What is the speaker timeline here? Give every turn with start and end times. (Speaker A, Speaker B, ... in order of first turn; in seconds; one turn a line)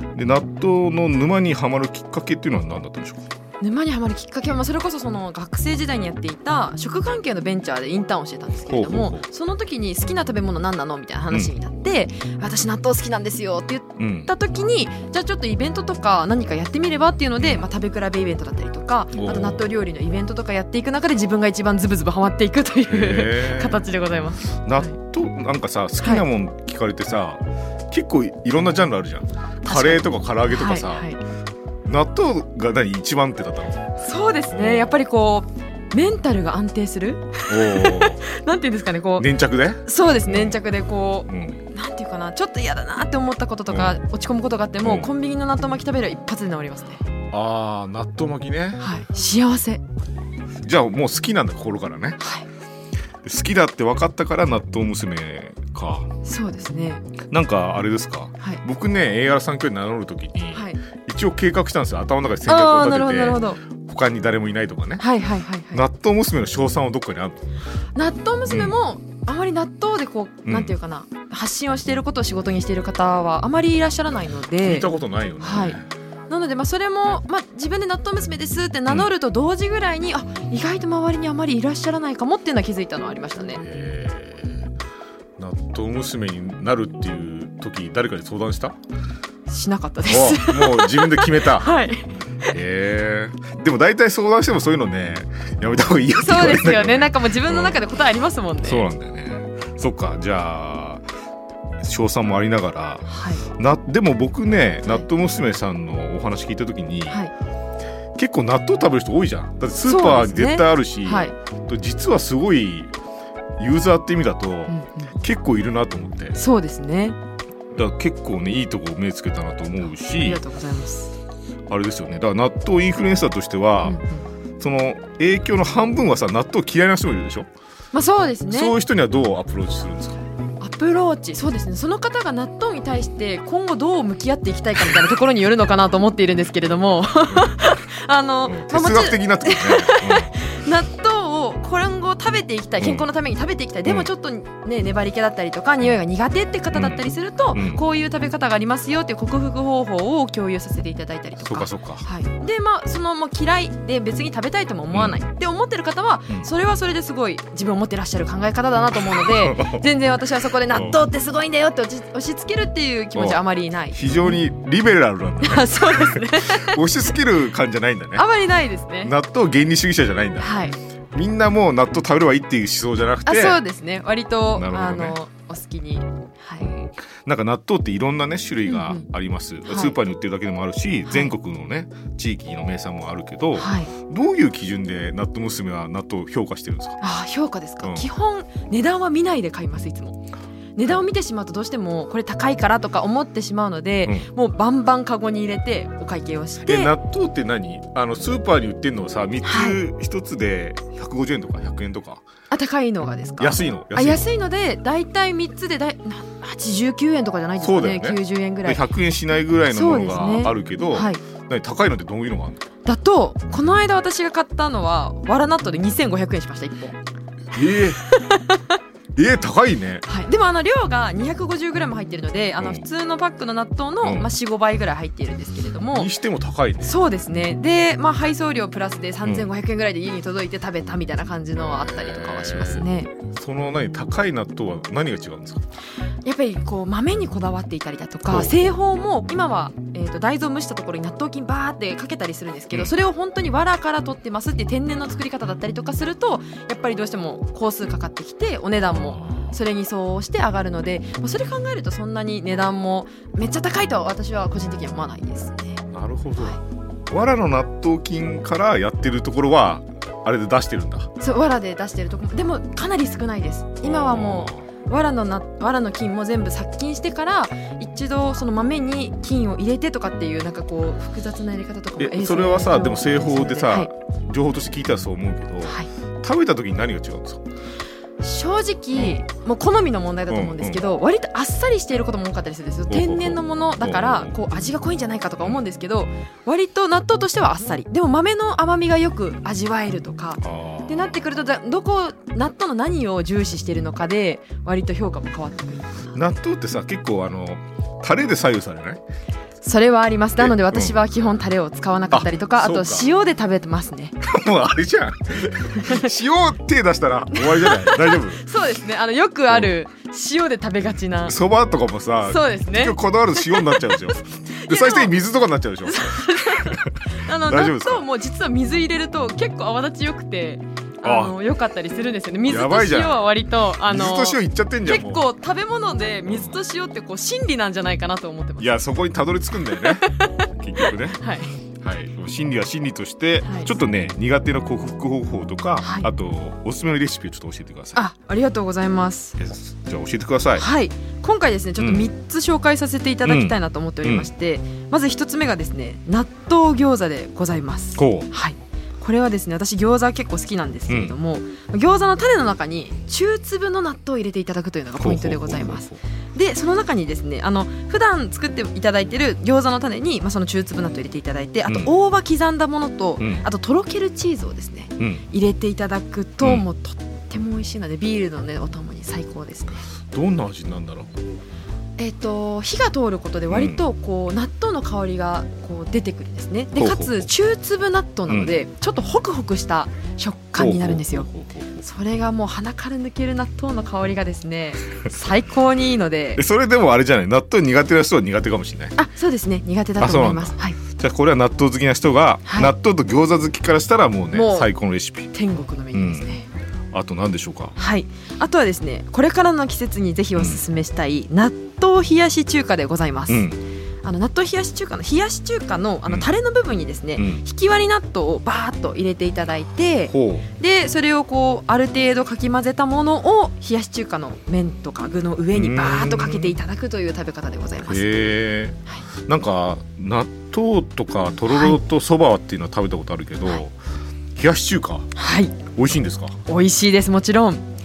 Speaker A: 0.1-3.3
Speaker B: 3.6-24.9
Speaker A: 8.7-9.2
Speaker A: 14.0-14.3
Speaker A: 19.1-19.6
Speaker A: 22.9-23.8
Speaker A: 24.6-31.1
Speaker B: 26.0-26.2
Speaker B: 29.6-31.2
Speaker A: 31.9-33.9
Speaker B: 34.0-39.3
Speaker A: 34.5-35.0
Speaker A: 37.5-38.2
Speaker A: 39.2-40.6
Speaker B: 39.8-47.0
Speaker A: 41.3-41.6
Speaker A: 43.7-44.0
Speaker A: 44.8-45.1
Speaker A: 47.3-48.8
Speaker B: 48.8-49.8
Speaker A: 50.6-52.2
Speaker B: 52.2-52.5
Speaker A: 53.2-56.1
Speaker B: 56.2-57.1
Speaker A: 57.3-65.1
Speaker B: 60.5-60.8
Speaker B: 62.5-63.6
Speaker B: 65.0-65.8
Speaker A: 65.7-67.4
Speaker B: 67.9-83.6
Speaker A: 68.5-68.8
Speaker A: 70.5-70.7
Speaker A: 74.6-75.9
Speaker A: 83.6-84.7
Speaker A: 85.4-88.8
Speaker B: 89.5-92.5
Speaker A: 90.1-91.7
Speaker A: 92.5-97.8
Speaker B: 96.2-98.9
Speaker A: 98.6-101.0
Speaker A: 101.8-107.2
Speaker B: 103.1-103.5
Speaker B: 107.1-107.3
Speaker A: 108.2-112.9
Speaker B: 109.8-111.3
Speaker A: 113.6-116.4
Speaker B: 114.7-115.1
Speaker B: 116.3-117.2
Speaker A: 117.7-120.4
Speaker B: 120.0-121.1
Speaker A: 121.7-124.0
Speaker B: 123.8-124.2
Speaker A: 124.6-127.5
Speaker B: 127.9-128.8
Speaker A: 128.5-130.2
Speaker B: 130.6-164.3
Speaker A: 137.3-137.7
Speaker A: 138.5-140.4
Speaker A: 142.8-143.1
Speaker A: 143.8-144.1
Speaker A: 146.7-147.8
Speaker A: 151.4-152.1
Speaker A: 154.9-155.2
Speaker A: 159.0-159.9
Speaker A: 160.7-161.0
Speaker A: 163.9-168.3
Speaker B: 165.4-166.8
Speaker B: 168.1-169.1
Speaker A: 169.0-170.5
Speaker B: 170.4-170.8
Speaker A: 171.1-173.6
Speaker B: 173.2-176.7
Speaker A: 174.5-175.2
Speaker A: 176.6-187.0
Speaker B: 178.7-179.1
Speaker B: 179.7-180.0
Speaker B: 183.6-183.9
Speaker B: 187.0-190.2
Speaker A: 187.8-188.1
Speaker B: 190.8-196.9
Speaker A: 196.6-202.2
Speaker B: 199.4-199.8
Speaker B: 202.5-208.8
Speaker A: 203.4-204.3
Speaker A: 207.6-212.6
Speaker B: 209.7-211.2
Speaker B: 212.8-217.0
Speaker A: 217.5-218.0
Speaker B: 218.0-218.8
Speaker A: 219.2-220.1
Speaker B: 220.1-226.1
Speaker A: 222.6-222.9
Speaker A: 224.0-224.3
Speaker A: 225.9-227.0
Speaker B: 226.8-233.1
Speaker A: 231.7-235.6
Speaker B: 236.2-256.6
Speaker A: 238.3-238.7
Speaker A: 248.9-249.6
Speaker A: 255.9-261.1
Speaker B: 261.2-273.9
Speaker A: 263.8-264.6
Speaker A: 272.0-277.4
Speaker B: 275.6-275.9
Speaker B: 278.2-296.1
Speaker A: 278.9-279.2
Speaker A: 280.3-280.8
Speaker A: 282.9-284.4
Speaker A: 290.4-291.1
Speaker A: 296.1-299.0
Speaker B: 299.6-304.1
Speaker A: 300.4-301.0
Speaker A: 302.1-303.1
Speaker A: 304.2-308.4
Speaker B: 305.8-306.1
Speaker B: 307.3-311.4
Speaker A: 311.3-318.1
Speaker B: 312.2-315.1
Speaker B: 315.8-328.8
Speaker A: 321.0-321.4
Speaker A: 322.4-323.2
Speaker A: 323.8-325.2
Speaker A: 326.2-326.6
Speaker A: 328.6-331.2
Speaker B: 329.8-331.6
Speaker A: 331.8-338.0
Speaker B: 333.4-333.7
Speaker B: 335.8-336.1
Speaker B: 337.9-339.4
Speaker A: 339.4-340.6
Speaker B: 340.6-369.8
Speaker A: 341.8-342.1
Speaker A: 343.2-344.3
Speaker A: 348.0-348.3
Speaker A: 350.9-351.1
Speaker A: 355.0-356.0
Speaker A: 361.7-361.9
Speaker A: 363.2-363.4
Speaker A: 370.1-371.1
Speaker B: 372.0-381.3
Speaker A: 373.5-373.8
Speaker A: 376.8-377.3
Speaker A: 378.3-378.6
Speaker A: 380.6-381.8
Speaker B: 381.8-386.4
Speaker A: 386.4-388.9
Speaker B: 388.9-390.8
Speaker A: 390.0-395.3
Speaker B: 392.4-392.7
Speaker B: 394.3-394.7
Speaker B: 395.3-396.5
Speaker A: 395.9-396.4
Speaker A: 396.9-397.8
Speaker B: 397.8-403.5
Speaker A: 403.3-403.6
Speaker B: 404.0-418.1
Speaker A: 407.1-407.4
Speaker A: 410.1-410.5
Speaker A: 415.5-416.6
Speaker A: 417.9-423.7
Speaker B: 421.5-421.8
Speaker A: 424.4-425.1
Speaker B: 425.1-425.6
Speaker A: 425.7-426.4
Speaker B: 426.5-427.6